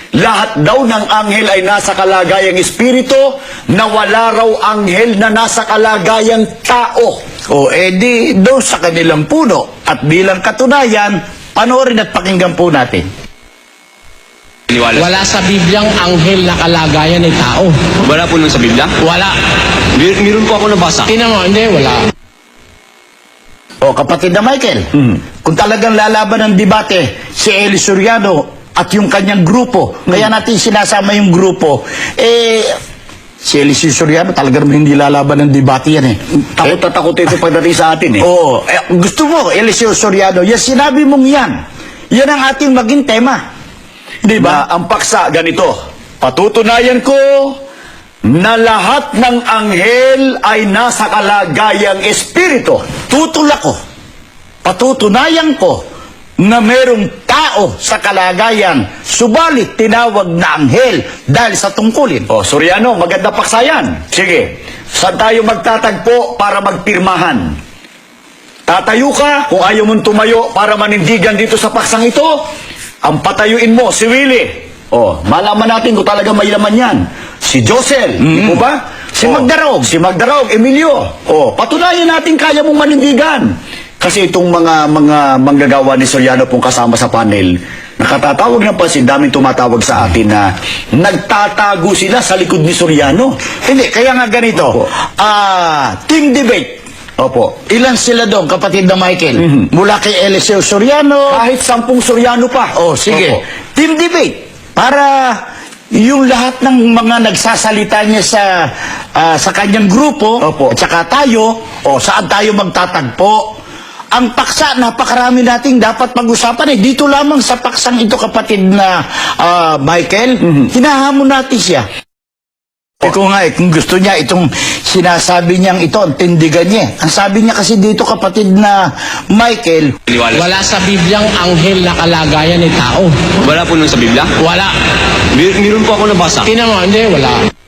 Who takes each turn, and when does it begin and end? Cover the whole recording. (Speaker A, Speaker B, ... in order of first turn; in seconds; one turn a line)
Speaker A: 0.1-7.2
Speaker B: 7.5-13.1
Speaker C: 14.7-15.1
Speaker D: 14.9-17.7
Speaker C: 18.0-19.0
Speaker D: 19.0-19.3
Speaker C: 19.9-21.1
Speaker D: 21.1-22.0
Speaker B: 23.8-24.9
Speaker B: 25.4-32.8
Speaker B: 33.4-36.7
Speaker A: 36.5-38.3
Speaker B: 38.2-41.6
Speaker B: 42.1-43.4
Speaker B: 44.2-44.6
Speaker A: 44.3-45.8
Speaker B: 46.2-47.1
Speaker A: 48.2-52.8
Speaker B: 53.1-53.8
Speaker B: 54.6-55.8
Speaker B: 56.4-62.3
Speaker A: 62.3-67.6
Speaker A: 68.7-72.4
Speaker A: 73.0-93.3
Speaker B: 78.2-78.6
Speaker B: 79.1-79.9
Speaker B: 93.6-96.8
Speaker A: 97.2-97.5
Speaker B: 97.7-101.4
Speaker A: 101.3-103.4
Speaker B: 102.7-105.4
Speaker B: 105.9-113.6
Speaker A: 110.4-110.8
Speaker B: 114.1-121.9
Speaker A: 120.4-120.7
Speaker B: 123.0-129.9
Speaker C: 130.1-130.5
Speaker D: 130.3-133.1
Speaker C: 133.4-134.3
Speaker D: 134.4-134.7
Speaker C: 135.3-136.5
Speaker D: 136.4-137.4